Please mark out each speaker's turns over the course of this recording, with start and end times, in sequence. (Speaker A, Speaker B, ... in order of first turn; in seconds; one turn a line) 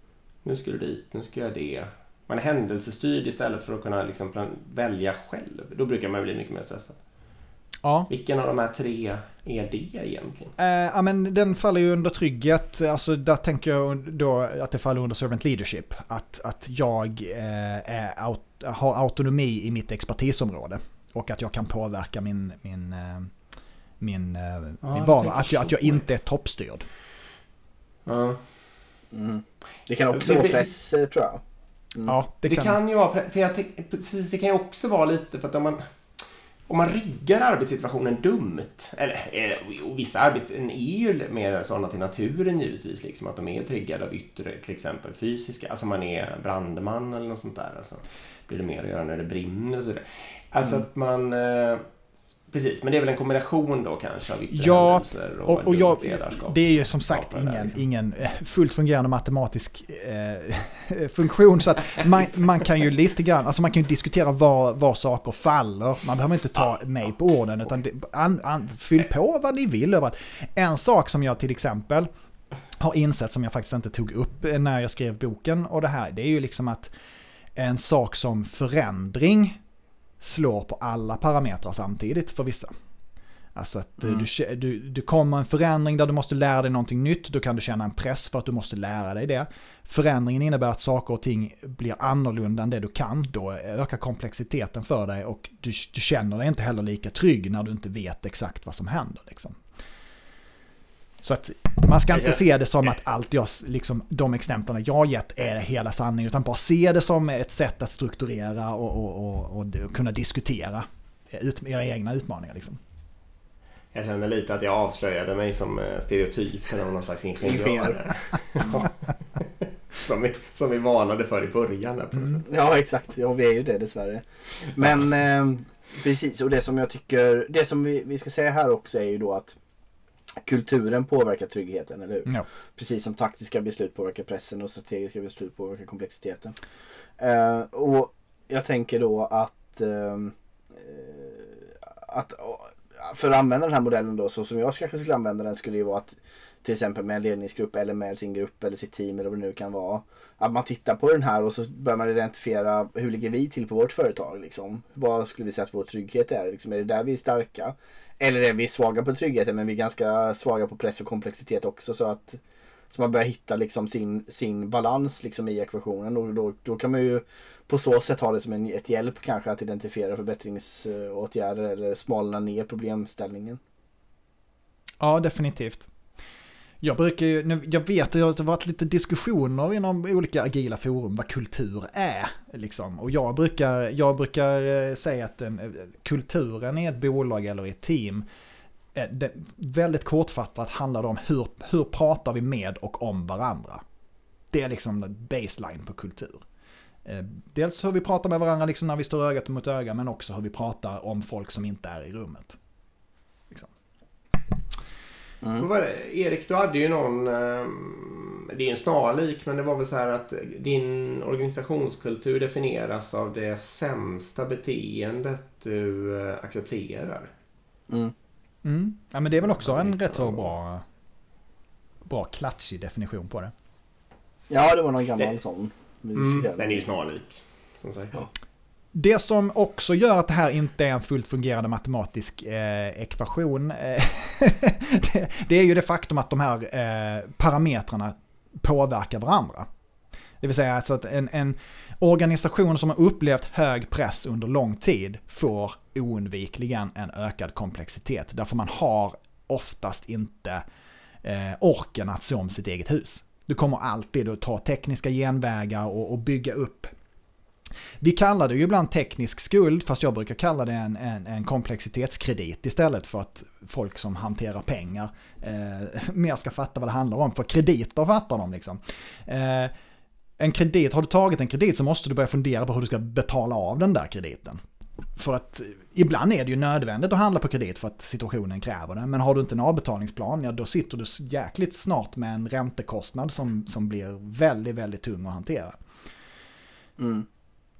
Speaker A: 0.4-7.0
Speaker B: 7.8-8.1
Speaker A: 8.1-10.5
Speaker B: 10.6-23.3
Speaker B: 24.0-26.9
Speaker A: 24.8-26.0
Speaker A: 28.1-28.4
Speaker C: 29.1-31.4
Speaker A: 30.1-30.7
Speaker B: 32.0-32.8
Speaker A: 32.5-35.8
Speaker A: 36.7-51.8
Speaker A: 52.5-57.8
Speaker B: 54.5-72.1
Speaker B: 72.8-76.9
Speaker B: 77.5-79.6
Speaker B: 80.2-82.7
Speaker B: 83.5-99.6
Speaker B: 101.2-112.8
Speaker A: 102.1-102.4
Speaker A: 113.9-122.5
Speaker C: 117.4-118.0
Speaker C: 122.4-129.6
Speaker C: 130.4-136.6
Speaker C: 137.2-173.6
Speaker B: 175.0-175.9
Speaker B: 176.8-188.2
Speaker B: 188.9-193.8
Speaker B: 194.5-196.4
Speaker B: 197.0-202.6
Speaker C: 205.4-205.7
Speaker A: 205.6-217.3
Speaker C: 217.9-218.1
Speaker B: 218.6-220.8
Speaker A: 219.6-220.5
Speaker B: 222.0-223.5
Speaker C: 224.5-226.9
Speaker A: 226.1-228.3
Speaker B: 228.9-239.7
Speaker B: 240.4-250.6
Speaker B: 251.2-256.9
Speaker B: 258.0-269.7
Speaker B: 270.4-274.6
Speaker B: 275.1-285.8
Speaker C: 287.0-287.3